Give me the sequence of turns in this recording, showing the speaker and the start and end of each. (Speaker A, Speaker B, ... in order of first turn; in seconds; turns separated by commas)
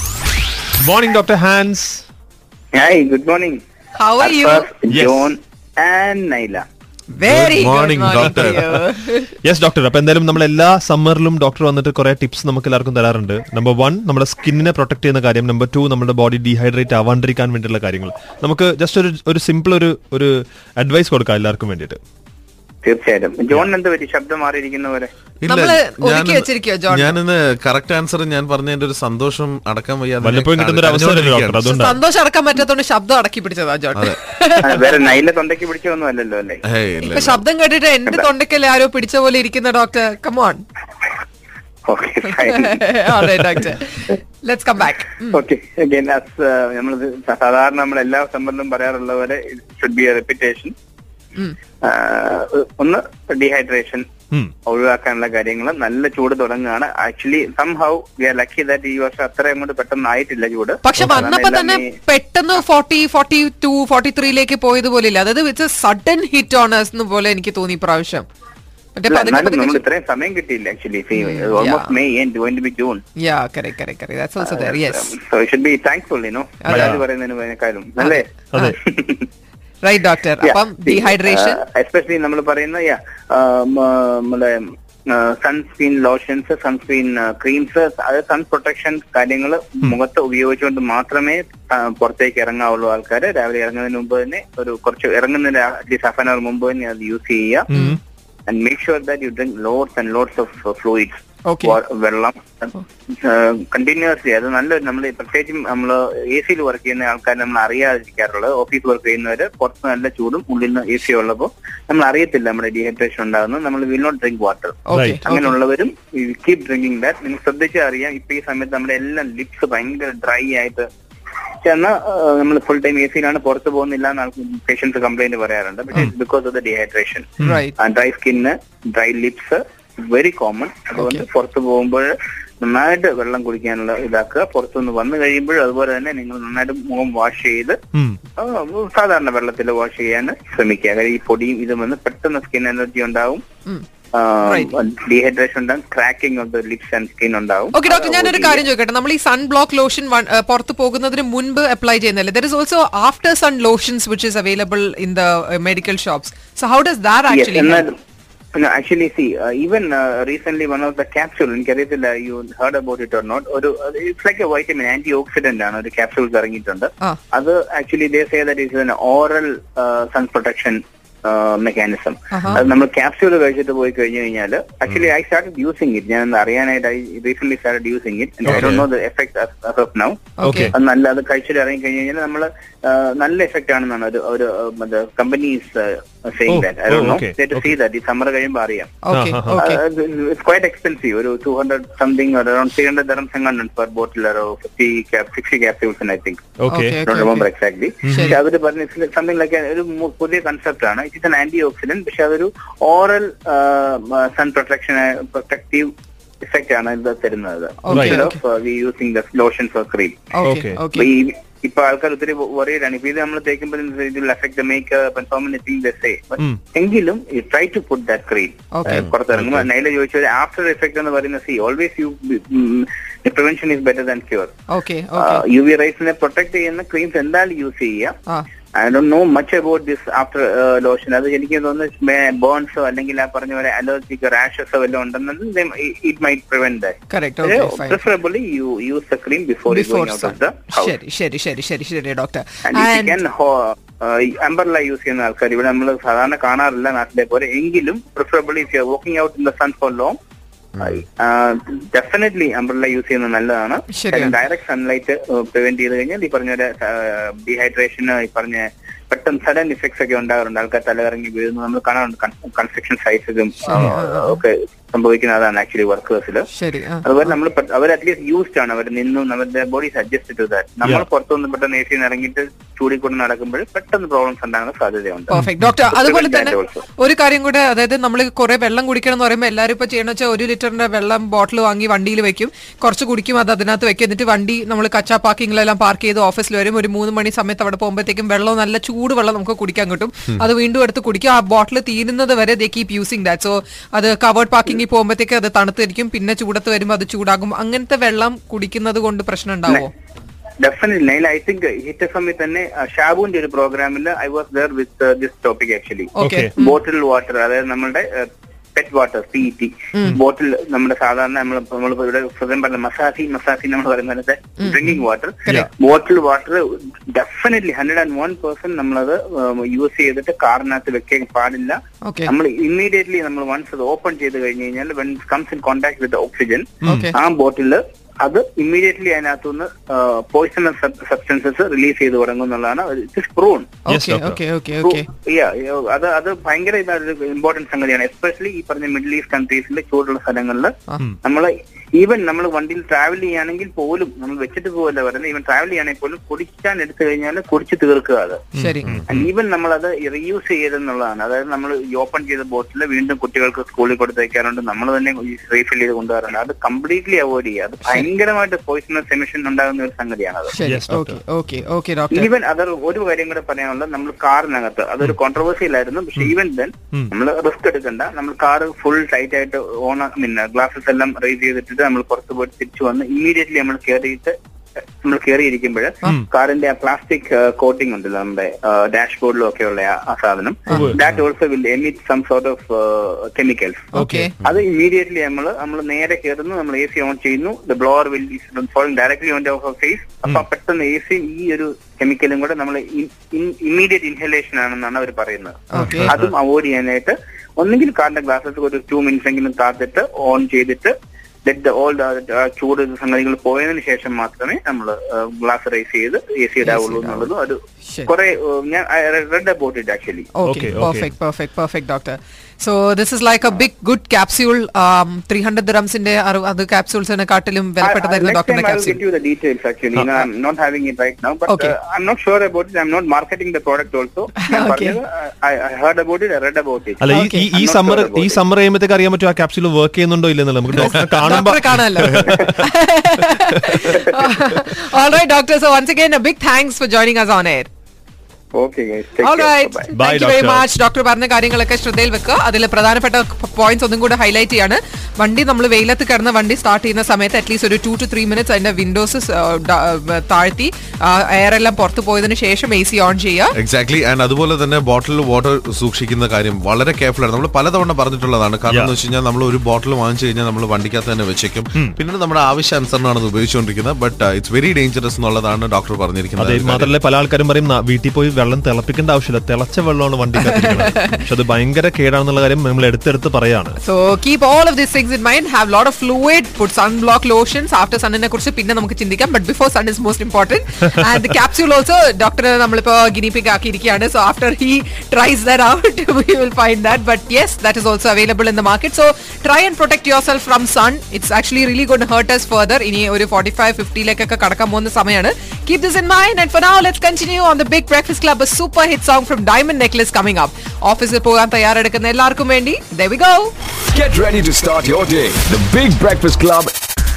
Speaker A: 0.8-2.0, Speaker B: 2.7-3.6, Speaker C: 4.0-4.7, Speaker B: 4.2-6.6, Speaker A: 4.9-5.3, Speaker C: 7.2-9.3, Speaker D: 7.2-8.8, Speaker A: 9.4-22.0, Speaker B: 22.8-25.1, Speaker D: 25.4-31.6, Speaker C: 25.5-27.2, Speaker A: 30.2-32.0, Speaker C: 31.6-35.0, Speaker B: 34.6-36.6, Speaker D: 36.7-37.4, Speaker C: 37.0-40.6, Speaker B: 41.9-42.8, Speaker C: 42.4-45.4, Speaker B: 45.3-50.7, Speaker B: 51.8-54.0, Speaker B: 54.6-61.8, Speaker C: 60.8-68.2, Speaker A: 61.0-61.2, Speaker C: 68.9-69.8, Speaker B: 69.1-73.0, Speaker C: 71.2-71.9, Speaker C: 73.2-75.1, Speaker B: 74.4-79.3, Speaker C: 76.6-76.9, Speaker A: 76.7-77.0, Speaker C: 78.0-78.8, Speaker C: 79.8-81.6, Speaker B: 80.4-97.7, Speaker A: 97.7-98.0, Speaker B: 98.5-120.9, Speaker C: 101.5-101.8, Speaker C: 114.9-115.5, Speaker B: 121.6-137.8, Speaker C: 127.4-127.7, Speaker C: 131.0-131.2, Speaker B: 138.4-143.4, Speaker B: 144.1-148.6, Speaker C: 144.4-144.7, Speaker C: 147.7-157.8, Speaker B: 157.3-157.9, Speaker B: 158.5-189.0, Speaker C: 172.3-172.6, Speaker A: 178.4-178.8, Speaker D: 178.4-178.8, Speaker C: 180.4-180.7, Speaker A: 180.4-180.7, Speaker A: 186.5-187.6, Speaker C: 189.0-189.8, Speaker A: 189.1-189.6, Speaker B: 189.6-196.5, Speaker A: 196.6-197.0, Speaker C: 196.7-197.5, Speaker B: 197.0-205.9, Speaker A: 198.1-198.4, Speaker C: 198.1-198.3, Speaker B: 206.5-210.2, Speaker C: 207.8-208.3, Speaker A: 207.9-208.2, Speaker C: 210.3-211.1, Speaker A: 210.4-210.8, Speaker B: 210.9-224.5, Speaker C: 218.7-219.1, Speaker A: 219.3-219.6, Speaker C: 224.7-225.4, Speaker B: 225.2-228.2, Speaker B: 228.8-240.9, Speaker C: 237.1-238.0, Speaker C: 239.7-243.2, Speaker B: 242.7-250.2, Speaker B: 250.8-266.5, Speaker C: 253.9-254.3, Speaker C: 263.6-264.4, Speaker C: 266.5-267.1, Speaker B: 267.0-276.8, Speaker C: 275.3-299.9, Speaker A: 275.3-275.8, Speaker B: 300.6-308.2, Speaker C: 306.2-306.8, Speaker A: 306.2-306.5, Speaker B: 308.8-333.7, Speaker C: 314.6-314.9, Speaker C: 322.0-322.3, Speaker C: 326.9-327.1, Speaker C: 333.9-335.1, Speaker A: 333.9-334.4, Speaker B: 334.8-348.4, Speaker C: 348.5-349.0, Speaker A: 348.6-349.2, Speaker B: 349.0-360.6, Speaker C: 360.5-362.3, Speaker A: 360.6-361.2, Speaker B: 362.1-374.3, Speaker B: 375.0-400.9, Speaker A: 380.7-381.0, Speaker C: 383.9-384.3, Speaker A: 383.9-384.3, Speaker C: 395.7-396.1, Speaker A: 395.8-396.3, Speaker B: 401.4-410.3, Speaker C: 406.6-407.3, Speaker C: 410.3-419.0, Speaker A: 410.4-411.1, Speaker B: 417.8-428.4, Speaker C: 421.5-421.7, Speaker C: 424.4-425.0, Speaker A: 427.0-432.7, Speaker C: 427.1-427.4, Speaker C: 430.8-437.7, Speaker B: 438.5-439.9, Speaker C: 439.2-453.5, Speaker A: 439.9-440.6, Speaker D: 453.6-466.9, Speaker A: 458.7-458.9, Speaker A: 466.4-473.8, Speaker C: 473.8-503.5, Speaker E: 503.9-506.7